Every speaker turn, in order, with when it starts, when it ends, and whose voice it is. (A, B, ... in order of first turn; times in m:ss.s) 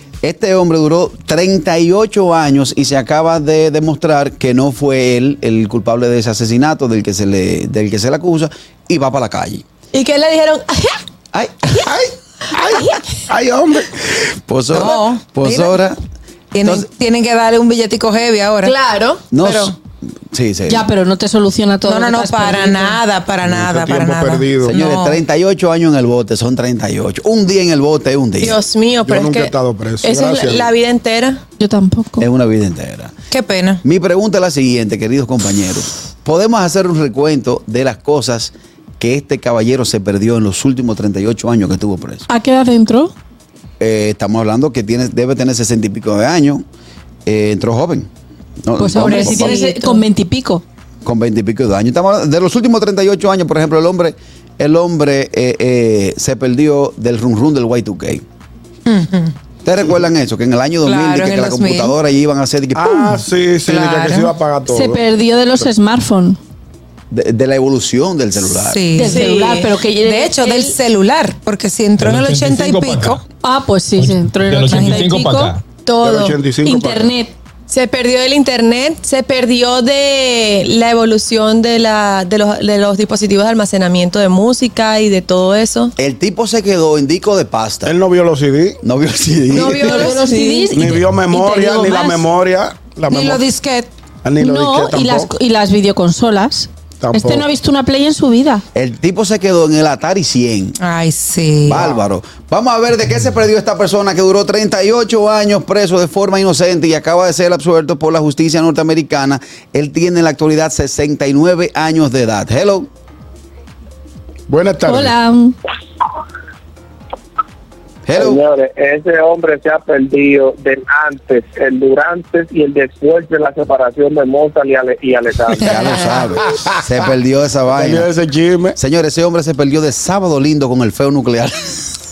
0:00.2-0:09.6 A
0:09.9-0:11.0 B
0:11.8-0:14.0 C
0:12.7-0:13.0 B
0:14.5-0:16.0 A
0:14.7-0:15.8 D
0:16.5-0:18.7 D
0:16.6-0:16.9 A
0:18.6-0:19.7 B
0:19.3-0:19.8 A
0:20.3-0:20.9 A
0:20.7-0:23.0 E
0:21.8-0:25.2 D
0:23.4-0:24.8 C
0:24.7-0:28.6 A
0:28.4-0:31.4 B
0:29.0-0:30.7 C
0:31.6-0:32.3 E
0:32.2-0:33.1 A
0:33.3-0:33.8 D
0:33.8-0:42.2 A
0:42.3-0:43.1 E
0:43.8-0:46.6 A
0:47.2-0:48.1 A
0:48.6-0:49.6 A
0:48.8-0:50.6 E
0:51.0-0:58.2 A
0:58.8-0:59.3 D
0:59.6-1:03.2 A
1:00.8-1:01.9 D
1:02.7-1:05.0 C
1:03.6-1:04.3 D
1:04.7-1:06.4 E
1:07.1-1:09.0 A
1:08.6-1:09.5 D
1:09.0-1:10.4 E
1:09.0-1:09.6 B
1:10.0-1:13.2 D
1:10.4-1:10.7 B
1:12.0-1:13.2 F
1:13.4-1:15.5 E
1:13.9-1:15.6 F
1:14.7-1:15.0 D
1:15.8-1:16.4 B
1:16.0-1:17.2 C
1:16.6-1:17.3 E
1:17.7-1:25.9 B
1:26.0-1:27.9 A
1:27.8-1:28.8 C
1:28.8-1:30.2 A
1:29.6-1:30.7 B
1:29.7-1:32.3 E
1:30.7-1:33.4 C
1:33.1-1:33.9 D
1:34.2-1:35.3 C
1:34.4-1:38.6 E
1:37.0-1:37.5 C
1:38.7-1:40.8 A
1:40.8-1:41.8 D
1:41.6-1:52.9 A
1:54.5-1:55.2 C
1:54.8-1:55.6 E
1:58.1-1:58.4 A
1:58.2-2:05.6 G
2:05.6-2:08.1 A
2:05.6-2:06.2 D
2:07.7-2:08.8 C
2:08.8-2:11.9 A